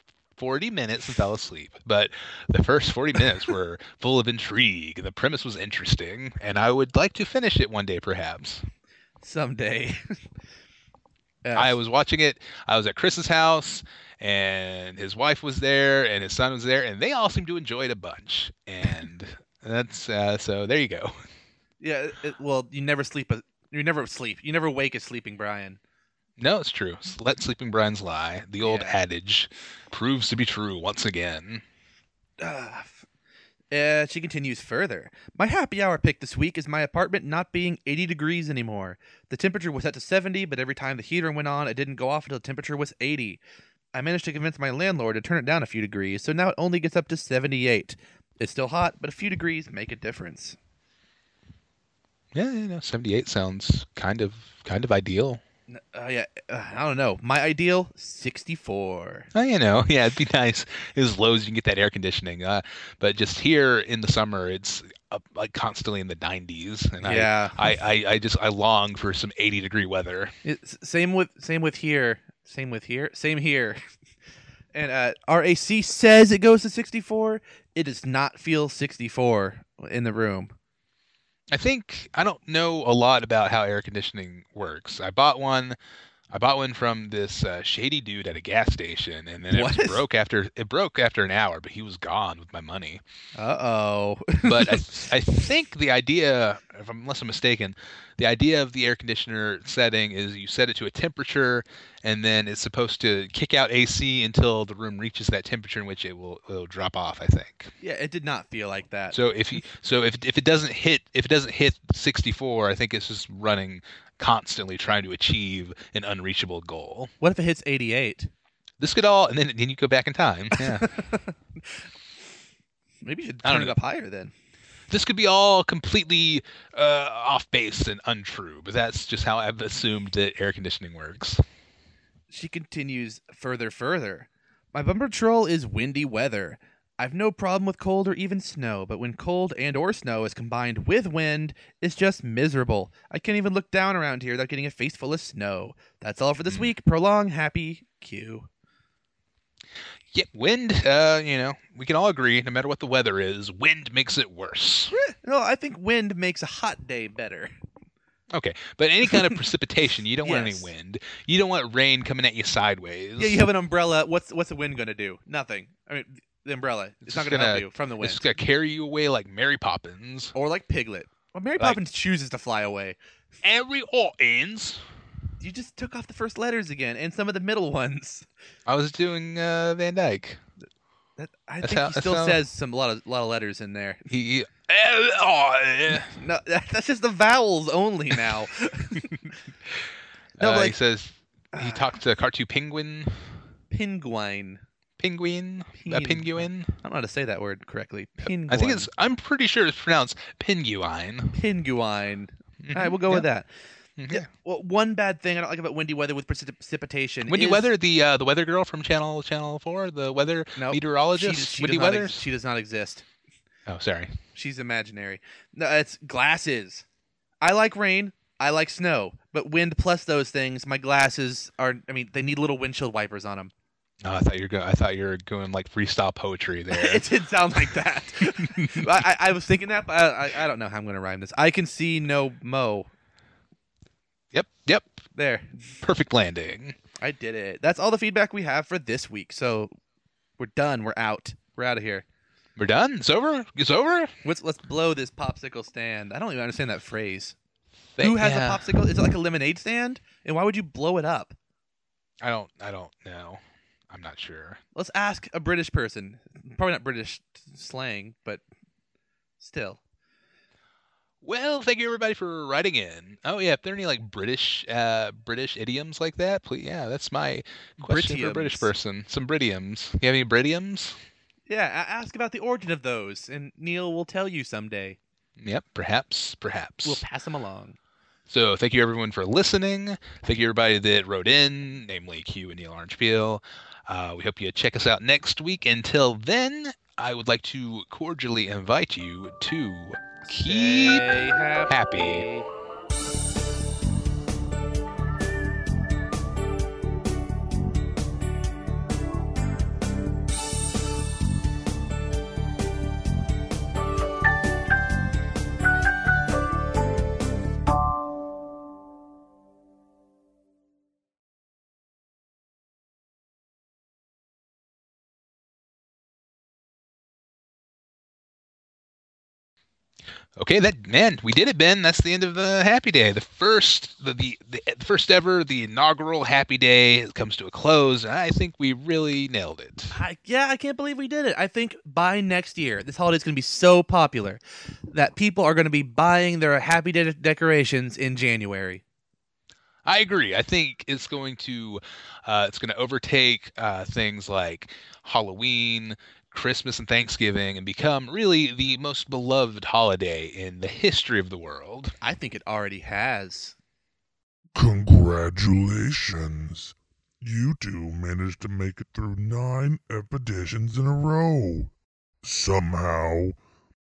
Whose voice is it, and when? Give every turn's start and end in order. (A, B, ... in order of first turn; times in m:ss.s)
0:00.4-0:08.6 A
0:09.2-0:10.0 B
0:11.4-0:11.7 B
0:11.5-0:21.1 A
0:21.8-0:25.8 B
0:26.4-0:31.6 A
0:28.6-0:28.9 B
0:32.4-0:33.0 B
0:33.7-0:43.4 B
0:43.9-0:50.6 B
0:52.3-0:55.4 A
0:55.7-0:59.3 B
0:59.3-1:10.3 A
1:07.0-1:07.7 B
1:10.4-1:13.8 B
1:14.7-1:20.5 B
1:21.5-1:25.8 A
1:26.3-1:33.0 A
1:29.5-1:30.0 B
1:33.4-1:35.1 B
1:34.4-1:47.7 A
1:47.8-1:49.2 B
1:49.1-1:57.1 A
1:57.2-1:58.3 B
1:58.8-2:00.9 A
2:00.6-2:01.8 B
2:03.0-2:04.3 B
2:03.4-2:03.7 A
2:04.9-2:11.4 A
2:12.3-2:28.5 B
2:30.1-2:34.9 A
2:34.9-2:37.5 B
2:38.3-2:43.4 A
2:40.2-2:40.7 B
2:43.2-2:48.4 B
2:47.0-2:50.3 A
2:50.3-2:53.0 B
2:53.4-2:54.8 A
2:55.4-2:58.2 B
2:58.7-3:00.4 A
3:01.2-3:04.0 B
3:01.6-3:02.4 A
3:04.1-3:06.2 A
3:06.0-3:09.3 B
3:10.4-3:13.2 A
3:10.4-3:10.8 B
3:11.5-3:11.8 B
3:13.7-3:14.6 B
3:15.0-3:16.7 A
3:15.8-3:18.9 B
3:18.2-3:21.4 A
3:21.3-3:23.5 B
3:22.6-3:23.2 A
3:24.0-3:24.3 A
3:24.1-3:27.7 B
3:27.3-3:32.2 A
3:30.6-3:33.0 B
3:33.7-3:34.1 A
3:34.3-3:36.8 B
3:37.4-3:43.5 B
3:44.0-3:47.0 A
3:46.7-3:52.9 B
3:48.2-3:49.0 A
3:54.3-3:55.0 A
3:55.1-3:55.6 B
3:55.8-3:56.8 A
3:57.0-3:59.7 B
4:00.4-4:02.0 B
4:02.6-4:04.1 A
4:04.2-4:07.3 B
4:07.9-4:08.8 A
4:08.0-4:11.3 B
4:12.2-4:14.6 A
4:14.7-4:18.4 B
4:19.4-4:19.8 B
4:21.2-4:31.0 A
4:27.8-4:28.7 B
4:31.5-4:35.0 B
4:35.4-4:37.0 A
4:36.8-4:37.8 B
4:38.3-4:52.3 A
4:50.3-4:52.5 B
5:20.4-5:30.0 A
5:29.9-5:34.4 B
5:34.9-5:38.8 B
5:39.8-5:51.9 A
5:52.0-5:53.6 B
5:54.5-6:03.4 C